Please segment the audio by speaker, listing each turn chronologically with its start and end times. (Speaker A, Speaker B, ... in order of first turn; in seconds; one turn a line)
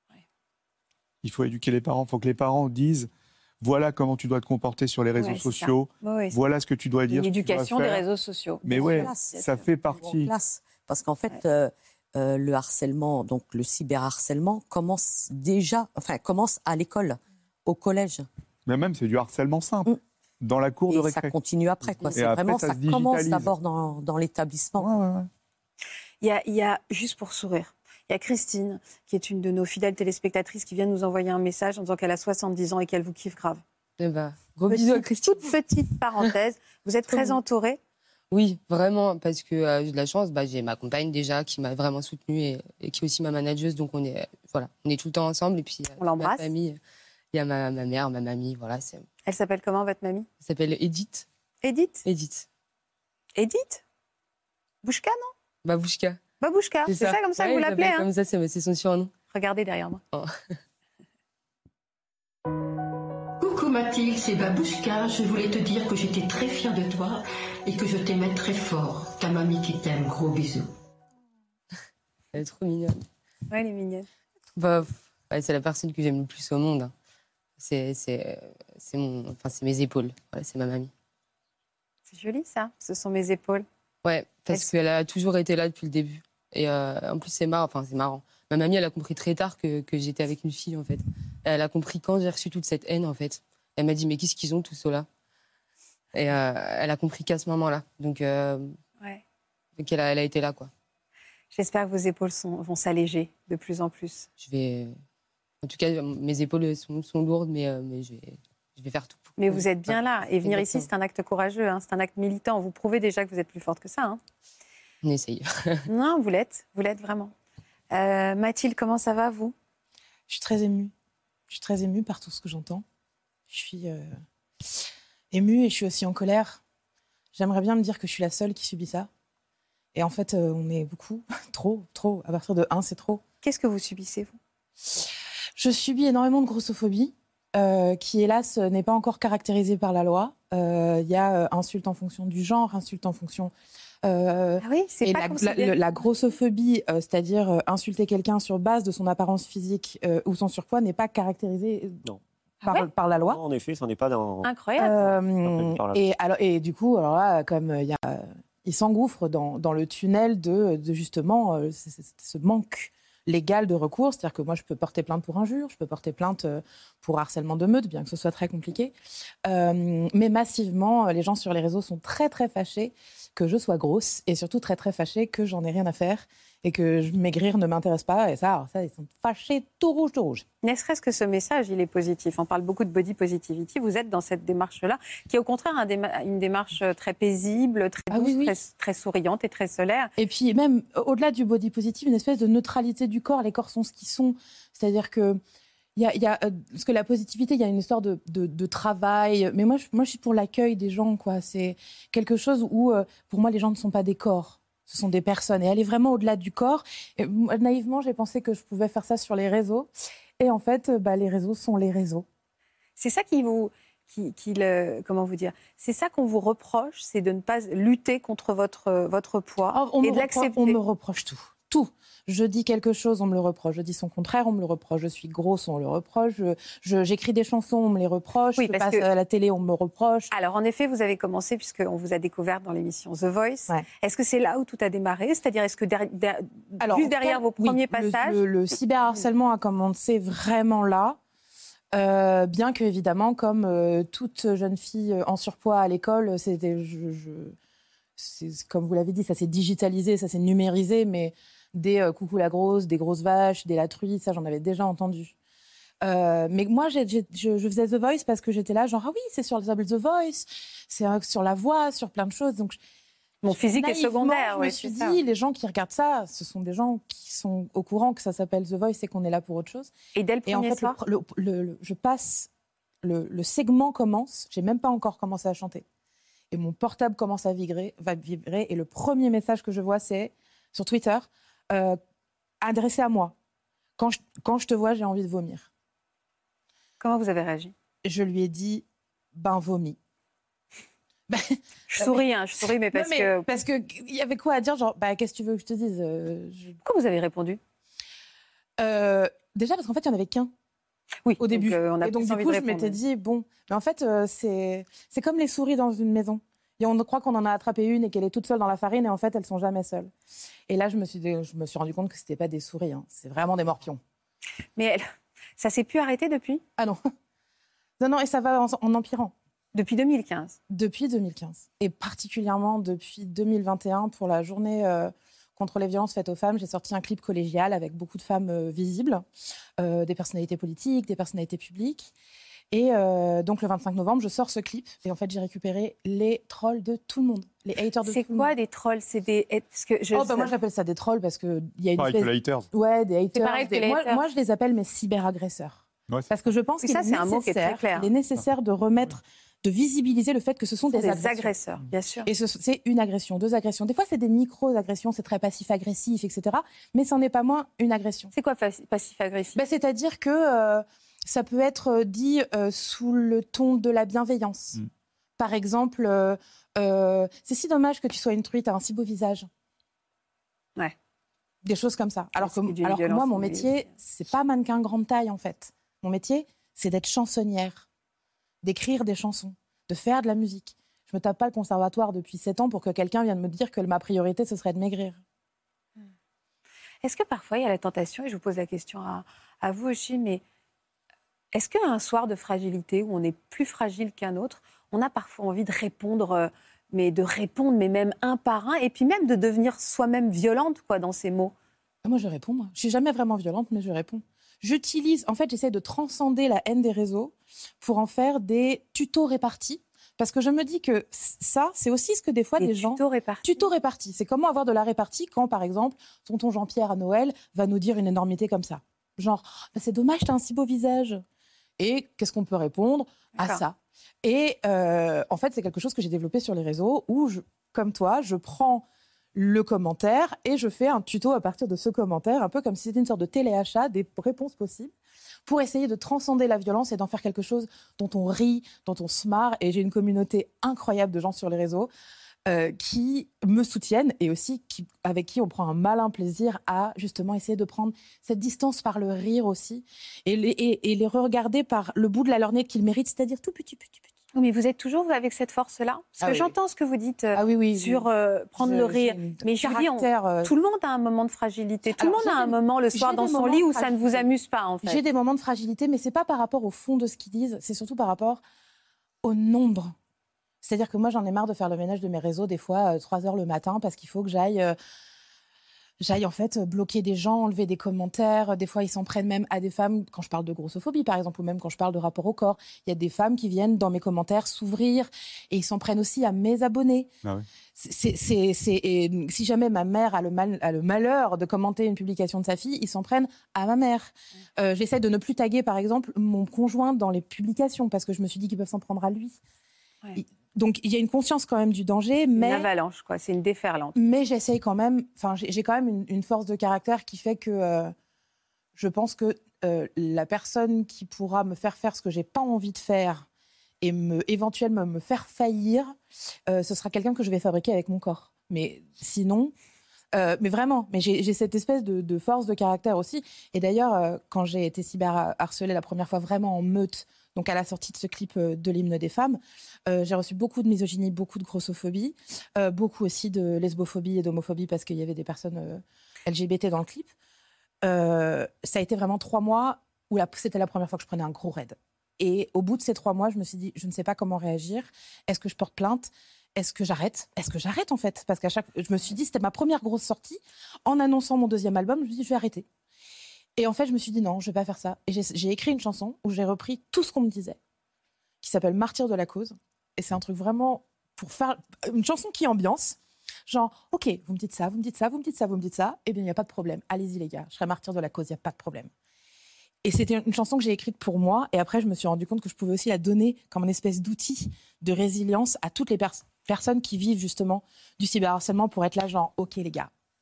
Speaker A: 1.2-3.1
Speaker A: 3.6-8.0
Speaker B: 5.2-6.3
Speaker B: 7.1-9.6
Speaker A: 8.6-10.3
Speaker C: 8.7-18.2
Speaker A: 18.7-21.3
Speaker C: 20.9-24.9
Speaker A: 22.1-23.5
Speaker A: 24.8-25.3
Speaker B: 26.2-33.6
Speaker D: 34.0-35.5
Speaker B: 34.7-37.8
Speaker D: 37.1-37.4
Speaker D: 38.3-46.8
Speaker B: 46.0-46.5
Speaker D: 47.3-49.0
Speaker B: 49.2-50.3
Speaker D: 50.4-51.3
Speaker B: 51.6-52.0
Speaker D: 52.0-52.5
Speaker B: 53.4-53.8
Speaker B: 54.8-55.3
Speaker D: 55.6-56.2
Speaker B: 56.4-58.1
Speaker D: 56.9-59.1
Speaker B: 59.3-60.0
Speaker D: 60.1-60.6
Speaker E: 63.4-70.7
Speaker D: 72.3-73.0
Speaker B: 73.5-74.1
Speaker D: 74.5-76.9
Speaker D: 77.6-80.9
Speaker B: 82.1-83.7
Speaker D: 84.0-95.1
Speaker D: 96.1-98.7
Speaker D: 99.8-100.7
Speaker B: 101.5-104.3
Speaker D: 104.4-105.0
Speaker D: 105.6-110.9
Speaker B: 109.4-114.2
Speaker D: 115.0-115.9
Speaker B: 115.9-117.3
Speaker B: 117.9-119.5
Speaker F: 120.3-120.9
Speaker F: 121.5-122.8
Speaker F: 123.5-124.2
Speaker F: 125.3-126.6
Speaker F: 127.3-129.1
Speaker F: 129.9-133.2
Speaker B: 133.4-134.4
Speaker F: 135.6-143.5
Speaker F: 144.0-152.0
Speaker B: 144.6-145.8
Speaker F: 152.6-153.4
Speaker G: 153.2-156.0
Speaker B: 154.4-155.1
Speaker F: 154.8-168.9
Speaker F: 169.4-180.4
Speaker B: 180.6-190.1
Speaker F: 188.1-188.6
Speaker F: 190.2-195.4
Speaker F: 195.9-212.2
Speaker B: 213.0-220.8
Speaker F: 219.7-230.3
Speaker B: 228.6-229.1
Speaker B: 230.3-238.4
Speaker F: 236.8-241.2
Speaker F: 241.9-247.5
Speaker F: 248.2-255.3
Speaker F: 256.0-262.8
Speaker B: 263.4-265.2
Speaker F: 263.5-269.9
Speaker B: 270.1-271.0
Speaker F: 270.5-272.5
Speaker F: 273.0-275.8
Speaker F: 276.5-282.0
Speaker F: 282.6-283.3
Speaker F: 284.0-285.7
Speaker B: 287.0-287.7
Speaker F: 288.0-290.0
Speaker F: 291.3-296.8
Speaker B: 291.9-293.5
Speaker B: 296.8-297.6
Speaker F: 298.8-300.5
Speaker B: 301.2-303.0
Speaker F: 301.4-310.1
Speaker F: 310.7-314.0
Speaker B: 314.8-315.0
Speaker B: 315.6-316.6
Speaker F: 318.0-319.3
Speaker B: 319.7-320.6
Speaker F: 320.7-329.2
Speaker F: 329.8-332.1
Speaker F: 332.7-338.5
Speaker B: 338.0-340.5
Speaker F: 340.1-351.5
Speaker A: 342.0-342.7
Speaker B: 343.3-344.2
Speaker B: 346.8-348.1
Speaker B: 350.9-352.3
Speaker F: 352.2-358.3
Speaker B: 358.3-359.6
Speaker F: 359.6-364.8
Speaker F: 365.4-369.5
Speaker F: 371.6-377.9
Speaker B: 372.4-373.8
Speaker F: 378.6-385.2
Speaker B: 387.0-390.4
Speaker B: 391.5-401.5
Speaker F: 402.0-421.2
Speaker B: 412.6-413.7
Speaker F: 421.8-434.9
Speaker B: 423.4-423.6
Speaker F: 435.4-441.9
Speaker F: 442.5-454.1
Speaker B: 454.3-465.0
Speaker F: 456.2-456.5
Speaker F: 457.3-460.5
Speaker F: 461.9-464.3
Speaker F: 464.8-468.4
Speaker F: 469.2-469.9
Speaker F: 470.6-474.8
Speaker F: 476.0-487.1
Speaker F: 487.8-499.4
Speaker F: 500.1-502.7
Speaker B: 502.4-503.9
Speaker F: 503.9-507.9
Speaker F: 508.7-513.3
Speaker F: 513.8-516.0
Speaker F: 516.5-519.5
Speaker F: 520.1-537.1
Speaker F: 537.8-552.6
Speaker F: 553.6-557.6
Speaker F: 558.4-568.9
Speaker F: 569.8-579.9